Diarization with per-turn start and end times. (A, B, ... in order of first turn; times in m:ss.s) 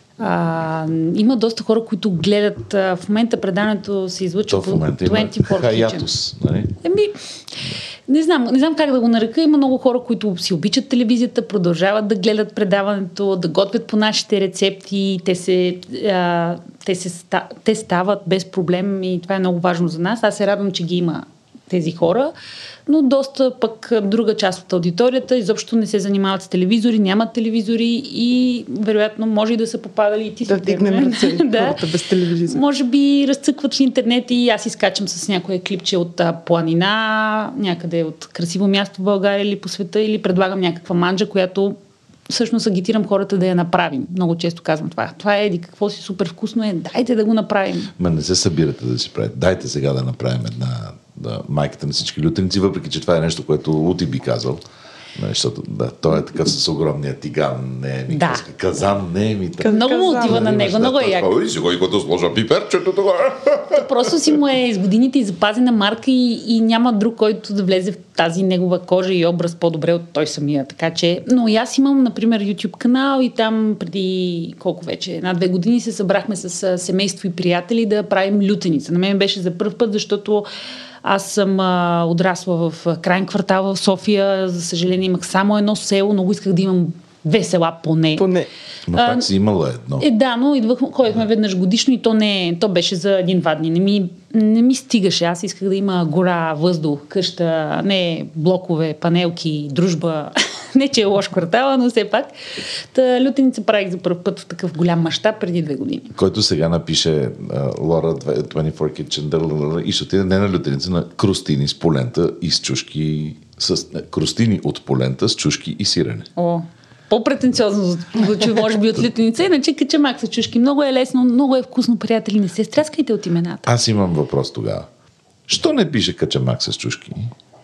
0:00.2-0:06.1 A
0:04.5-0:06.8 B
0:06.8-0:22.3 A
0:22.9-0:31.8 A
0:30.5-0:32.6 C
0:32.4-0:41.8 A
0:42.3-0:47.9 A
0:48.0-0:54.6 B
0:55.2-1:04.2 B
0:58.1-0:58.4 A
0:59.6-1:00.5 C
0:59.6-1:01.3 A
1:03.7-1:20.5 A
1:21.0-1:28.3 A
1:28.2-1:28.5 C
1:28.9-1:30.0 B
1:28.9-1:29.3 A
1:30.0-1:46.2 A
1:46.2-1:56.3 B
1:56.4-2:03.7 A
2:03.7-2:04.9 B
2:05.5-2:07.3 B